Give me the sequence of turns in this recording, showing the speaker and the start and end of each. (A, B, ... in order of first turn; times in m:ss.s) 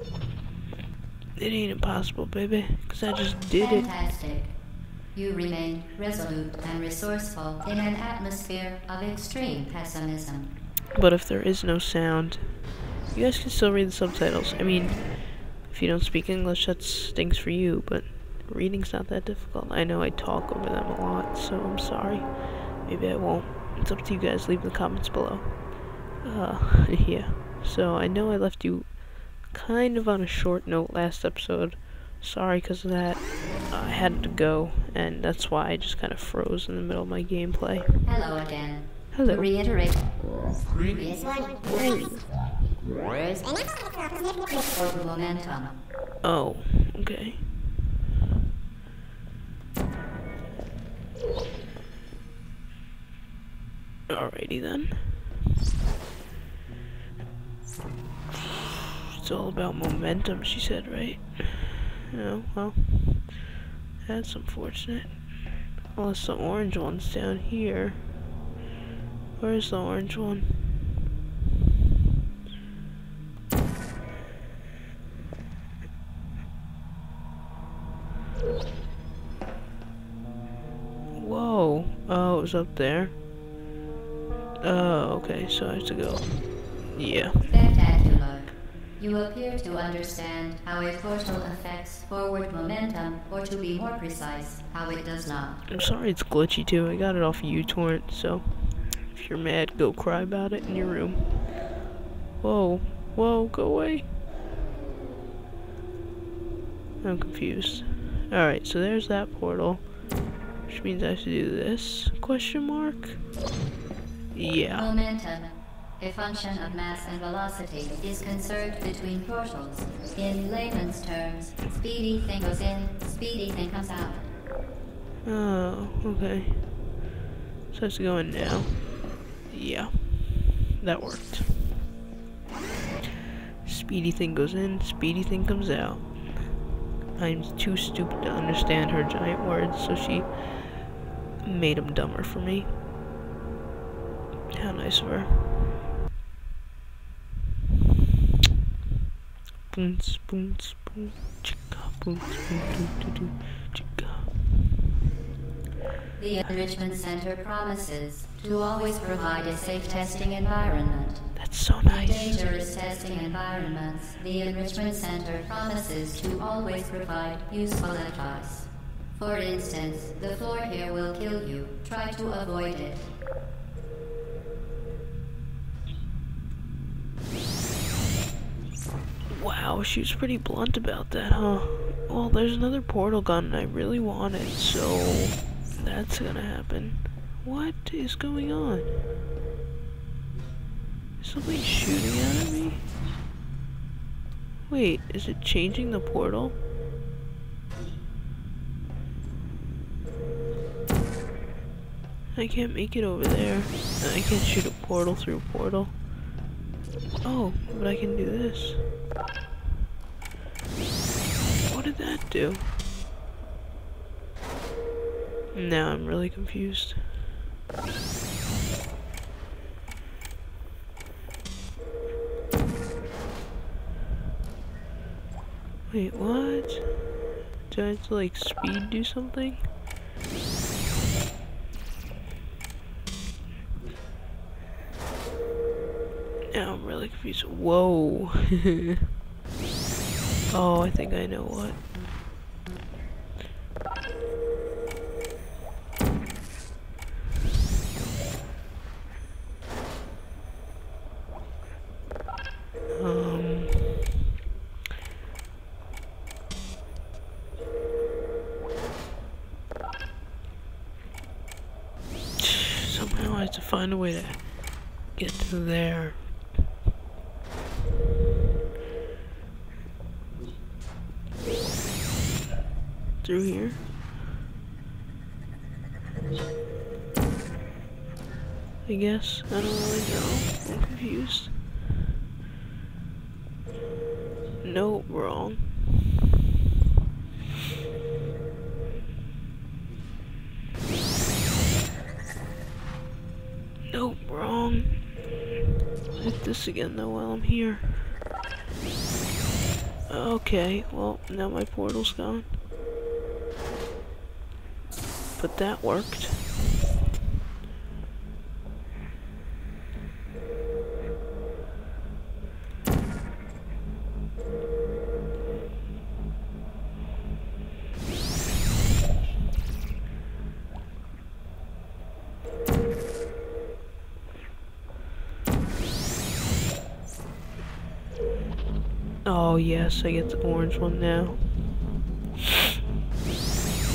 0:01.4-0:03.9 A
0:03.6-0:10.5 B
0:10.9-0:38.0 A
0:38.0-0:41.8 B
0:39.1-0:39.6 A
0:43.0-0:43.6 B
0:44.6-0:45.8 B
0:46.2-0:47.6 A
0:54.1-0:55.3 A
0:59.2-1:08.2 A
1:09.4-1:10.9 A
1:21.1-1:23.2 A
1:24.6-1:27.4 A
1:27.4-1:35.6 B
1:35.7-1:41.8 A
1:42.4-1:44.2 A
1:47.0-1:50.0 A
1:50.6-1:53.2 A
1:54.3-1:54.9 A
1:54.6-2:04.3 B
2:05.2-2:06.8 A
2:07.7-2:11.9 A
2:13.6-2:22.8 A
2:24.5-2:25.8 A
2:29.7-2:34.5 A
2:36.2-2:53.1 B
2:41.3-2:42.4 A
2:59.3-3:09.0 A
3:11.2-3:12.9 A
3:14.7-3:16.6 A
3:22.3-3:26.0 A
3:27.2-3:28.9 A
3:31.6-3:32.9 A
3:35.5-3:37.2 A
3:45.9-3:49.7 A
3:56.5-3:58.8 A
4:00.5-4:01.8 A
4:12.9-4:14.0 A
4:22.4-4:26.3 A
4:33.2-4:33.8 A
4:38.8-4:41.8 A
4:44.6-4:45.9 A
4:53.9-4:55.3 A
4:56.1-4:58.2 A
5:00.1-5:02.6 A
5:05.4-5:06.6 A
5:29.2-5:31.8 A